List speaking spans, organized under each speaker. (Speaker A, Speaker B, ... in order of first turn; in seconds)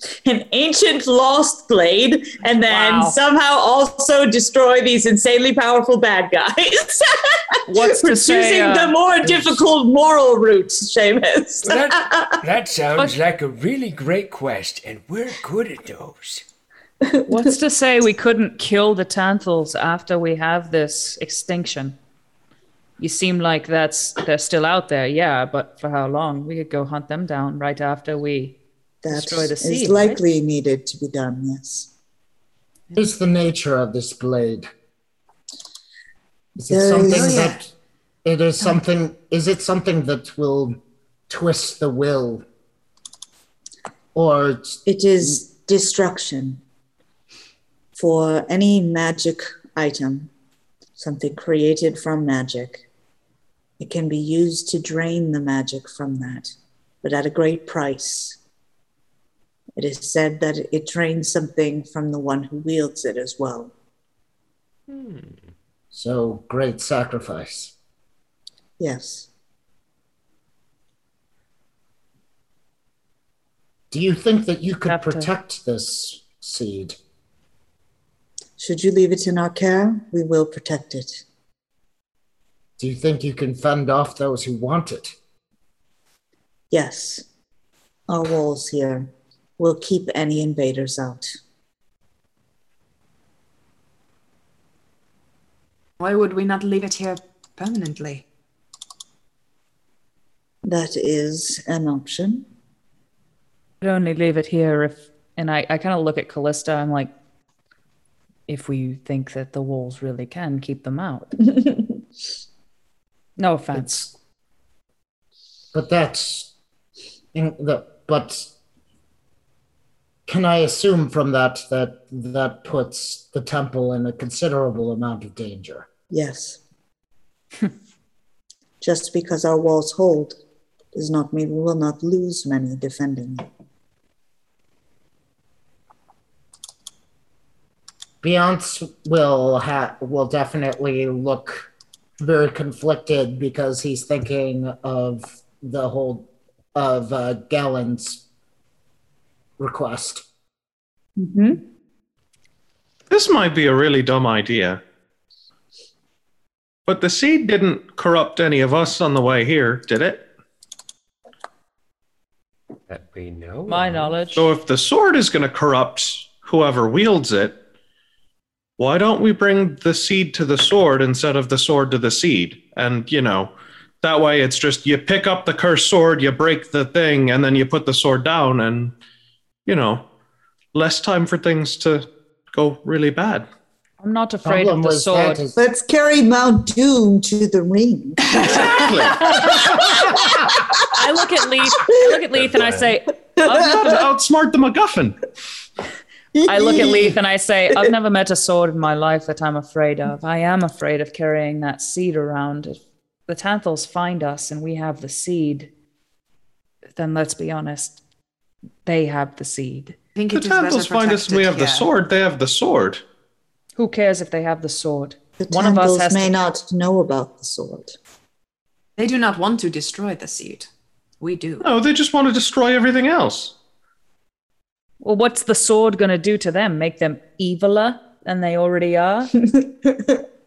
Speaker A: 0.3-12.4, 17.1-17.4, 29.0-31.9, 36.6-37.6, 44.9-46.6, 48.0-50.3, 51.0-52.8, 53.8-58.4, 59.8-63.7, 68.8-69.3, 78.6-81.2, 86.7-87.2, 88.1-91.3, 100.7-102.5, 126.1-126.6, 128.8-130.4, 130.9-133.4, 151.2-151.6, 185.6-190.8, 196.3-197.2, 215.4-218.0, 229.5-230.2
Speaker B: 2.6-3.2, 7.7-9.0, 17.3-22.0, 23.0-28.6, 29.1-30.2, 74.8-75.3, 103.8-107.1, 108.5-111.3, 113.4-114.1, 163.7-164.4, 184.0-185.4, 190.9-193.8, 196.5-205.7, 207.0-208.0, 208.9-210.0, 213.8-216.4, 225.0-229.3
Speaker C: 9.2-9.6, 11.6-16.4, 64.9-65.5, 162.9-164.3
Speaker D: 33.0-34.7, 36.6-37.7, 38.2-40.8, 41.3-42.5, 44.1-45.4, 65.9-67.7, 73.9-77.0, 82.8-85.2, 115.7-116.5, 117.3-118.5, 120.3-125.9, 138.2-141.7, 142.2-148.2, 149.6-150.3, 184.4-185.6, 188.5-190.3
Speaker E: 37.1-37.4, 96.0-98.2, 188.4-188.9, 210.2-211.9, 219.0-220.7, 221.2-221.7
Speaker F: 153.1-154.8, 156.9-160.2, 164.4-167.6, 168.8-178.9, 179.7-180.0, 180.7-183.5, 193.6-195.2, 210.3-213.0, 221.6-223.5